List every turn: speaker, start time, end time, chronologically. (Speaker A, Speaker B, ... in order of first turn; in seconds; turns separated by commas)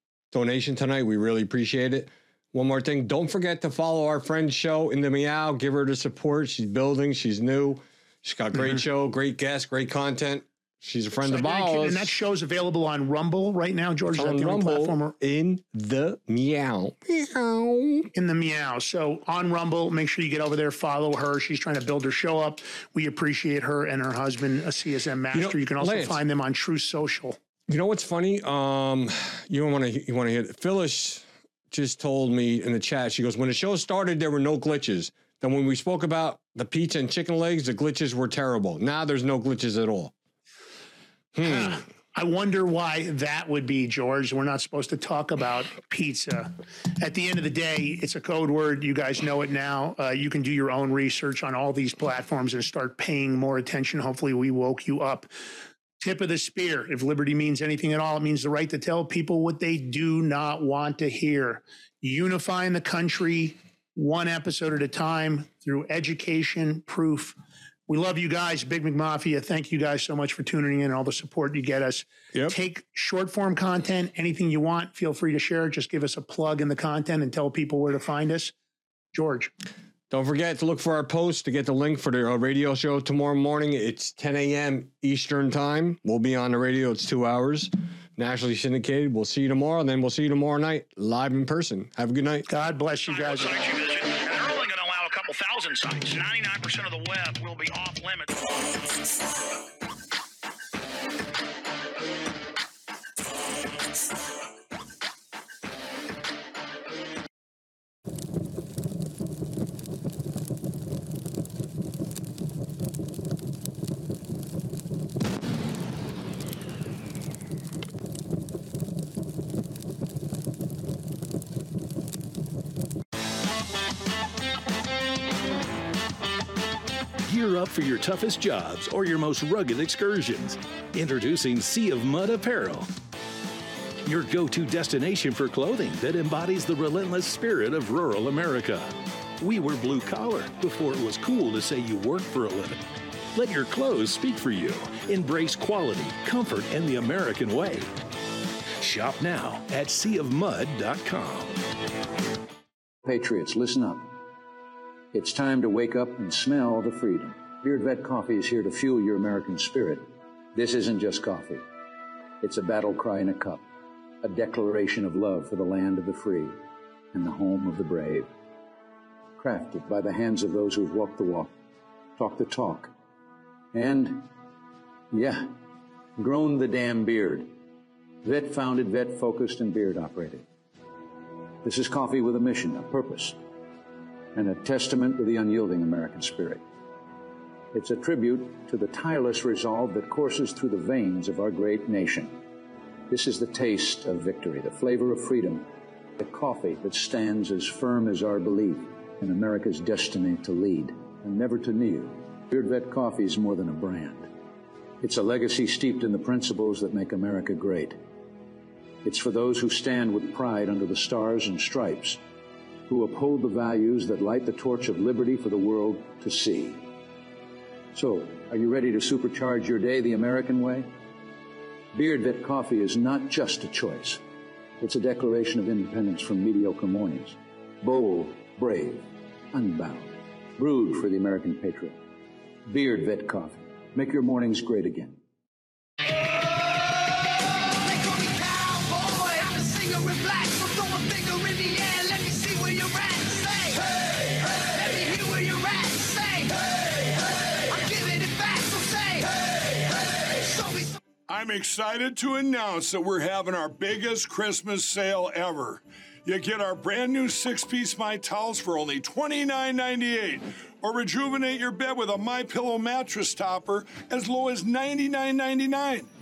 Speaker A: 0.3-12.2, Speaker B: 11.2-15.1, Speaker A: 14.1-18.1, Speaker B: 18.1-27.4, Speaker A: 25.3-26.2, Speaker A: 27.7-40.1, Speaker A: 41.4-41.8, Speaker B: 41.4-55.3, Speaker B: 56.0-67.3, Speaker B: 67.9-78.5, Speaker B: 79.1-79.5, Speaker A: 80.1-92.5, Speaker B: 92.5-93.6, Speaker C: 93.1-98.4, Speaker D: 127.2-132.9, Speaker D: 134.0-142.8, Speaker D: 143.3-147.9, Speaker D: 148.8-151.6, Speaker E: 153.0-154.1, Speaker E: 155.1-161.6, Speaker E: 162.4-163.6, Speaker E: 164.2-166.6, Speaker E: 167.1-168.3, Speaker E: 169.4-171.5, Speaker E: 172.2-172.9, Speaker E: 173.7-174.3, Speaker E: 175.1-175.6, Speaker E: 176.2-177.5, Speaker E: 178.2-180.4, Speaker E: 181.6-183.4, Speaker E: 184.3-186.6, Speaker E: 187.7-192.4, Speaker E: 193.1-195.7, Speaker E: 196.2-204.3, Speaker E: 205.0-208.0, Speaker E: 209.0-212.2, Speaker E: 212.9-216.8, Speaker E: 217.9-220.9, Speaker E: 221.9-224.2, Speaker E: 224.8-232.0, Speaker E: 232.7-235.2, Speaker D: 237.7-250.9, Speaker F: 251.3-266.1